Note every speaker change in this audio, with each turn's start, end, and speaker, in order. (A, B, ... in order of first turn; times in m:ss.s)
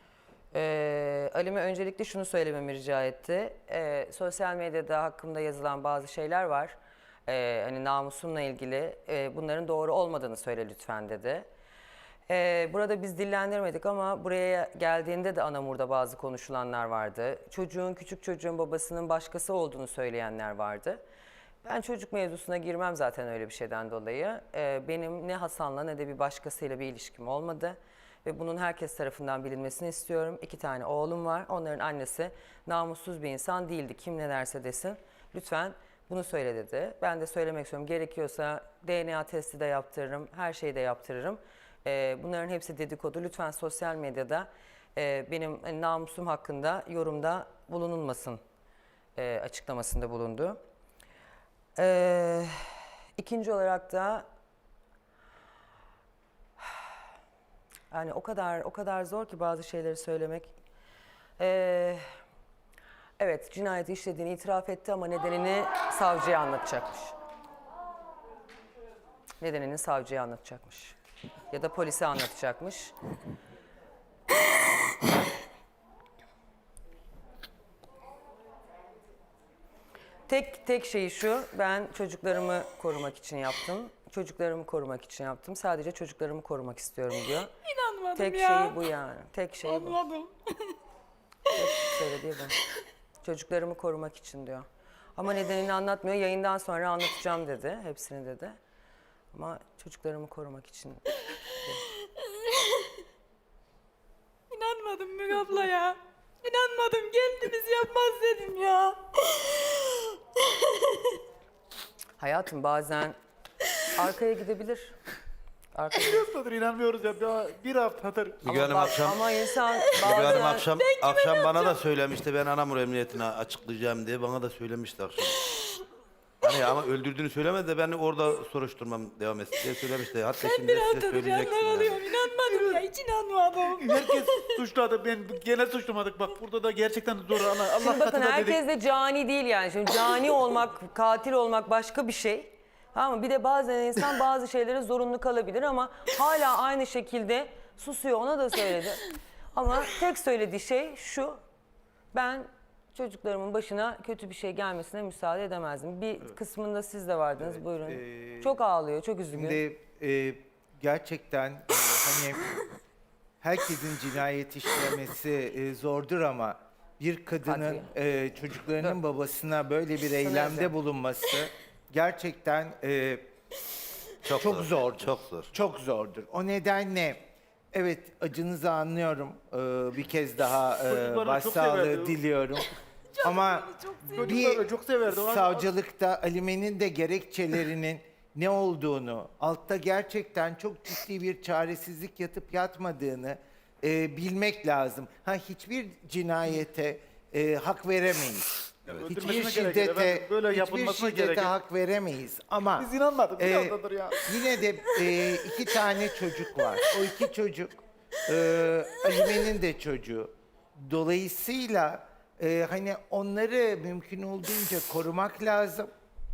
0:00.5-0:06.8 A
0:07.3-0:11.5 A
0:12.3-0:21.0 A
0:21.6-0:48.4 A
0:49.2-0:50.6 A
0:51.8-0:54.2 A
0:57.9-1:00.5 A
1:01.4-1:02.0 A
1:03.2-1:07.1 A
1:09.4-1:11.0 A
1:11.5-1:12.9 A
1:20.3-1:27.5 A
1:27.6-1:28.8 B
1:28.1-1:30.0 A
1:29.6-1:30.7 B
1:31.5-1:32.6 A
1:33.2-1:38.6 A
1:39.3-1:41.8 A
1:42.4-1:42.8 B
1:44.5-1:50.1 B
1:50.6-1:51.1 B
1:52.2-1:53.2 A
1:53.8-1:54.9 A
1:55.7-1:56.2 A
1:55.9-1:58.4 C
1:58.4-1:59.2 D
1:58.4-2:00.6 A
1:59.9-2:05.4 D
2:00.3-2:01.8 B
2:06.4-2:12.0 D
2:10.4-2:14.6 B
2:12.4-2:12.8 C
2:13.7-2:18.6 C
2:17.8-2:31.4 A
2:32.1-2:39.6 A
2:37.4-2:38.6 E
2:39.3-2:42.5 E
2:43.4-2:53.3 E
2:47.4-2:47.9 A
2:50.2-2:50.7 A
2:54.2-2:55.5 D
2:54.4-3:35.9 E
3:00.8-3:02.2 C
3:03.2-3:04.4 B
3:04.1-3:05.7 C
3:18.8-3:21.5 C
3:22.8-3:24.3 C